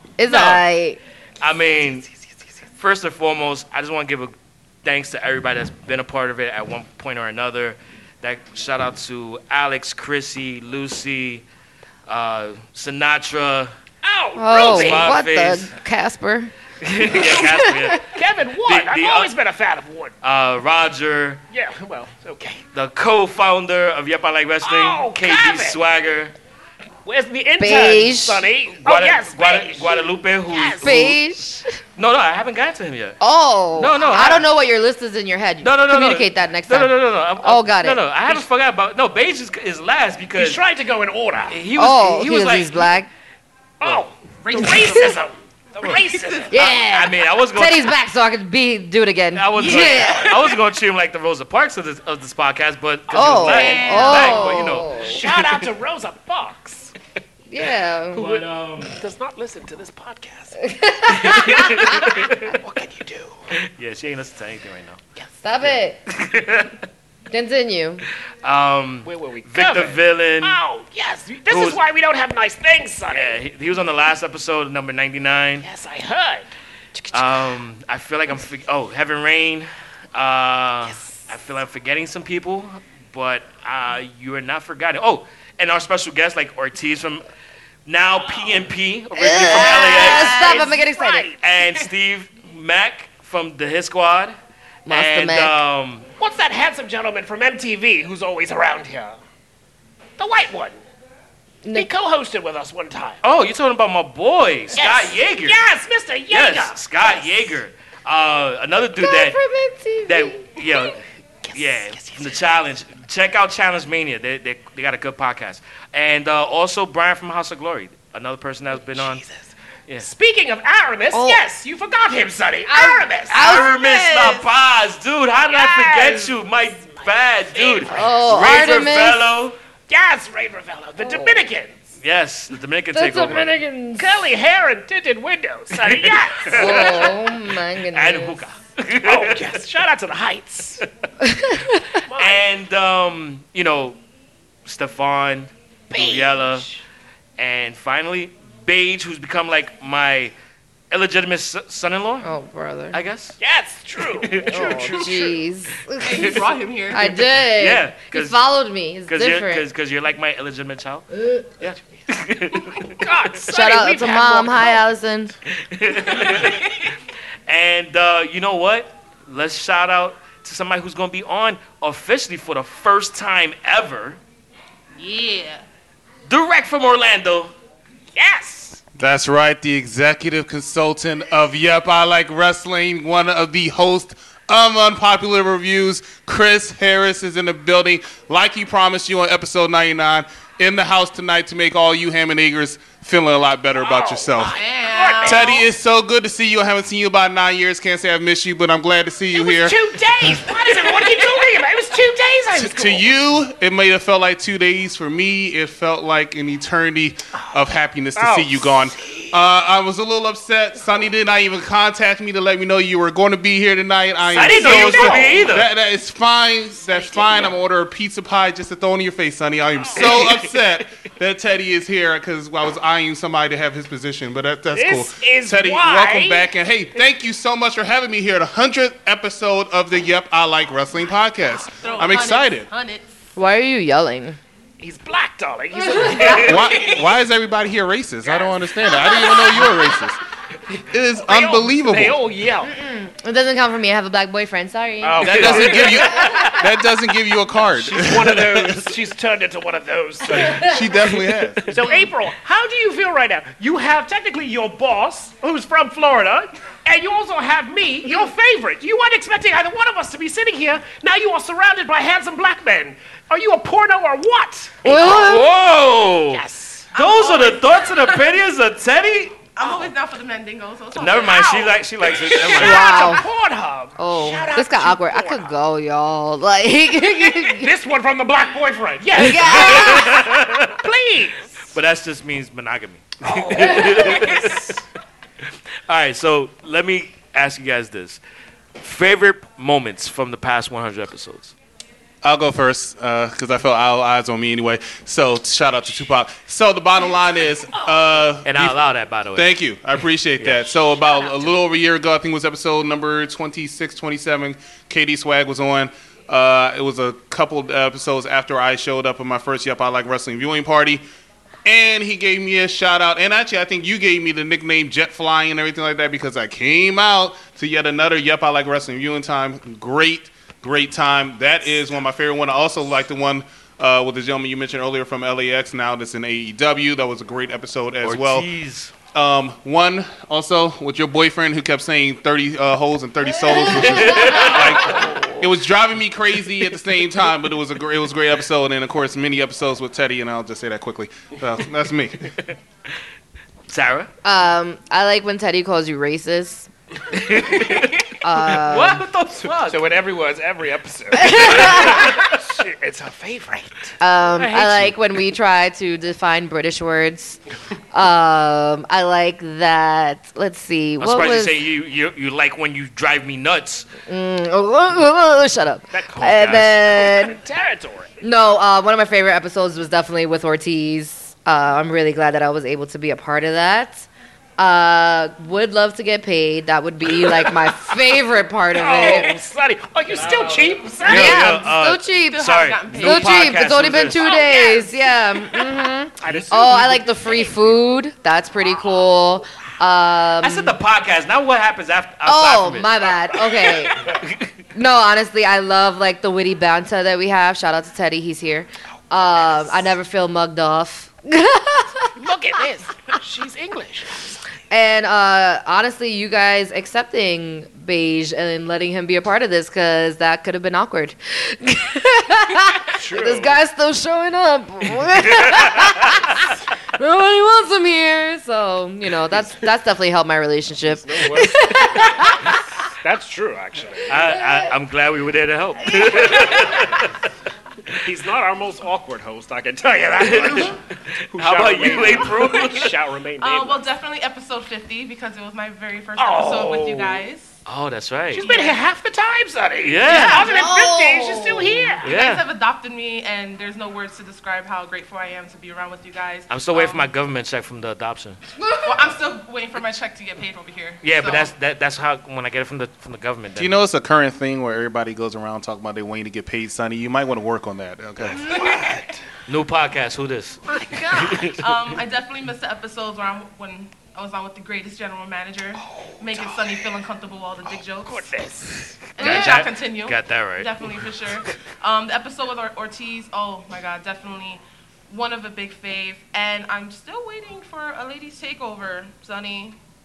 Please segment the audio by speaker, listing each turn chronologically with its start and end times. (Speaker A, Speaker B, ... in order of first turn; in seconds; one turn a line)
Speaker A: 0.2-1.0
Speaker B: 0.3-0.6
Speaker B: 1.4-2.1
Speaker B: 2.8-4.3
Speaker B: 4.8-11.4
Speaker B: 12.1-13.7
Speaker C: 14.0-15.2
Speaker A: 14.4-16.5
Speaker B: 14.5-15.7
Speaker B: 16.8-18.1
Speaker A: 17.1-18.0
Speaker C: 18.1-20.2
Speaker B: 18.6-19.3
Speaker B: 20.2-21.4
Speaker C: 21.5-22.6
Speaker B: 22.7-26.3
Speaker C: 24.6-25.8
Speaker C: 27.1-31.1
Speaker A: 27.6-28.4
Speaker B: 28.8-31.2
Speaker A: 30.8-31.8
Speaker B: 32.0-33.2
Speaker A: 33.2-38.0
Speaker B: 33.8-34.5
Speaker B: 35.6-40.6
Speaker C: 40.4-41.6
Speaker B: 41.5-42.9
Speaker A: 41.8-43.1
Speaker C: 43.8-46.6
Speaker D: 44.4-45.2
Speaker D: 45.8-46.5
Speaker A: 46.5-50.5
Speaker B: 46.5-48.0
Speaker B: 49.3-55.5
Speaker C: 49.6-50.5
Speaker A: 53.1-55.2
Speaker D: 53.3-54.6
Speaker C: 55.0-56.9
Speaker A: 57.5-58.2
Speaker B: 58.1-59.0
Speaker C: 58.2-60.6
Speaker A: 60.6-61.9
Speaker B: 61.1-62.5
Speaker C: 61.6-63.4
Speaker B: 63.5-65.0
Speaker A: 65.4-66.0
Speaker B: 65.6-66.7
Speaker A: 67.3-68.0
Speaker B: 68.4-70.6
Speaker C: 69.0-73.4
Speaker B: 71.5-71.8
Speaker B: 73.1-75.7
Speaker C: 75.6-77.5
Speaker B: 77.1-87.2
Speaker C: 80.8-81.3
Speaker B: 87.9-90.6
Speaker A: 89.2-91.3
Speaker C: 89.4-91.4
Speaker B: 91.4-94.4
Speaker A: 94.9-95.6
Speaker B: 94.9-96.1
Speaker C: 96.2-99.2
Speaker C: 100.2-100.8
Speaker C: 101.7-103.2
Speaker B: 103.2-105.6
Speaker C: 104.8-107.6
Speaker B: 106.3-109.4
Speaker A: 109.0-110.4
Speaker B: 110.1-111.0
Speaker C: 111.4-112.5
Speaker B: 111.5-119.2
Speaker C: 118.9-119.5
Speaker C: 120.0-123.6
Speaker A: 121.1-121.4
Speaker A: 122.7-123.7
Speaker B: 123.3-129.6
Speaker D: 123.4-124.4
Speaker C: 125.5-128.9
Speaker A: 127.9-129.3
Speaker C: 129.9-131.9
Speaker A: 131.0-131.3
Speaker B: 132.0-133.6
Speaker A: 132.9-134.2
Speaker C: 134.0-137.2
Speaker B: 135.8-137.1
Speaker A: 136.5-138.4
Speaker B: 137.9-139.5
Speaker C: 139.0-140.8
Speaker A: 141.2-141.9
Speaker C: 142.1-142.4
Speaker B: 142.2-144.0
Speaker B: 144.7-146.7
Speaker C: 145.9-146.8
Speaker B: 147.4-150.3
Speaker B: 150.9-152.3
Speaker A: 152.2-153.0
Speaker B: 152.9-153.4
Speaker C: 153.4-155.4
Speaker B: 154.2-154.6
Speaker A: 154.5-159.7
Speaker D: 156.0-157.2
Speaker B: 157.6-158.4
Speaker B: 159.1-161.1
Speaker A: 161.1-161.5
Speaker B: 161.6-163.0
Speaker C: 162.9-164.9
Speaker A: 163.5-165.3
Speaker B: 165.7-166.9
Speaker D: 166.2-166.7
Speaker B: 167.5-174.2
Speaker D: 175.0-175.6
Speaker B: 176.3-177.5
Speaker C: 178.2-178.8
Speaker E: 179.0-194.6
Speaker C: 193.8-195.6
Speaker D: 194.5-195.6
Speaker E: 195.2-199.8
Speaker C: 199.3-203.1
Speaker E: 202.6-232.7
Speaker C: 208.2-209.3
Speaker C: 214.3-215.5
Speaker B: 214.4-215.7
Speaker C: 219.9-220.3
Speaker C: 224.7-226.5
Speaker D: 231.7-233.1
Speaker A: 233.4-234.4
Speaker C: 234.8-236.9
Speaker D: 236.1-237.0
Speaker E: 236.4-240.2
Speaker D: 239.0-239.5
Speaker E: 240.9-242.2
Speaker C: 241.3-242.7
Speaker A: 242.6-246.6
Speaker C: 245.0-246.5
Speaker E: 245.2-248.9
Speaker C: 247.7-250.8
Speaker E: 250.3-251.7
Speaker A: 250.4-250.7
Speaker C: 251.6-265.4
Speaker A: 264.8-265.5
Speaker B: 264.9-266.4
Speaker C: 266.3-266.9
Speaker D: 266.9-268.3
Speaker B: 266.9-269.4
Speaker D: 269.6-271.8
Speaker B: 271.0-273.0
Speaker C: 272.3-275.5
Speaker D: 272.3-272.6
Speaker A: 272.6-273.3
Speaker A: 274.0-277.7
Speaker C: 277.2-281.7
Speaker A: 279.1-280.3
Speaker B: 279.5-280.8
Speaker B: 281.7-284.7
Speaker C: 283.2-284.8
Speaker B: 285.9-288.2
Speaker B: 288.8-291.5
Speaker E: 292.2-298.8
Speaker B: 298.4-299.5
Speaker E: 299.4-311.0
Speaker B: 300.4-300.9
Speaker E: 311.6-328.5
Speaker B: 328.0-328.9
Speaker E: 329.1-342.2
Speaker A: 333.5-334.5
Speaker B: 333.7-334.7
Speaker C: 334.8-335.2
Speaker B: 343.7-344.1
Speaker A: 344.2-346.7
Speaker B: 347.1-349.8
Speaker A: 348.2-349.1
Speaker C: 349.7-354.0
Speaker A: 351.1-352.1
Speaker B: 351.7-352.0
Speaker A: 354.0-357.4
Speaker B: 354.4-354.9
Speaker A: 357.9-361.6
Speaker B: 361.0-363.9
Speaker A: 364.1-367.4
Speaker C: 365.9-368.1
Speaker A: 368.2-374.1
Speaker A: 374.6-379.3
Speaker C: 377.3-377.5
Speaker C: 378.7-381.5
Speaker B: 381.0-384.4
Speaker A: 381.0-390.8
Speaker D: 382.3-383.6
Speaker D: 384.2-385.0
Speaker C: 386.2-387.5
Speaker B: 390.4-392.9
Speaker A: 392.2-394.0
Speaker B: 394.2-394.5
Speaker A: 394.7-402.1
Speaker C: 402.2-404.4
Speaker A: 404.7-422.6
Speaker C: 413.0-413.6
Speaker C: 421.0-422.3
Speaker C: 423.0-424.1
Speaker B: 424.1-427.1
Speaker A: 424.3-424.6
Speaker A: 425.9-426.6
Speaker C: 428.0-430.8
Speaker B: 430.2-430.8
Speaker C: 431.3-433.9
Speaker B: 431.4-432.9
Speaker D: 433.4-437.5
Speaker C: 436.2-437.2
Speaker B: 437.7-438.5
Speaker D: 438.3-438.8
Speaker C: 438.4-442.1
Speaker B: 439.8-440.4
Speaker D: 440.0-440.7
Speaker A: 440.4-442.0
Speaker B: 442.0-442.4
Speaker D: 442.0-447.1
Speaker B: 446.5-448.4
Speaker D: 448.9-451.5
Speaker B: 451.0-453.8
Speaker E: 453.6-458.5
Speaker C: 458.2-459.2
Speaker D: 458.6-458.9
Speaker B: 459.5-461.6
Speaker C: 460.7-461.5
Speaker D: 461.6-468.3
Speaker C: 465.8-466.8
Speaker C: 467.7-469.4
Speaker D: 469.1-479.8
Speaker B: 469.2-470.9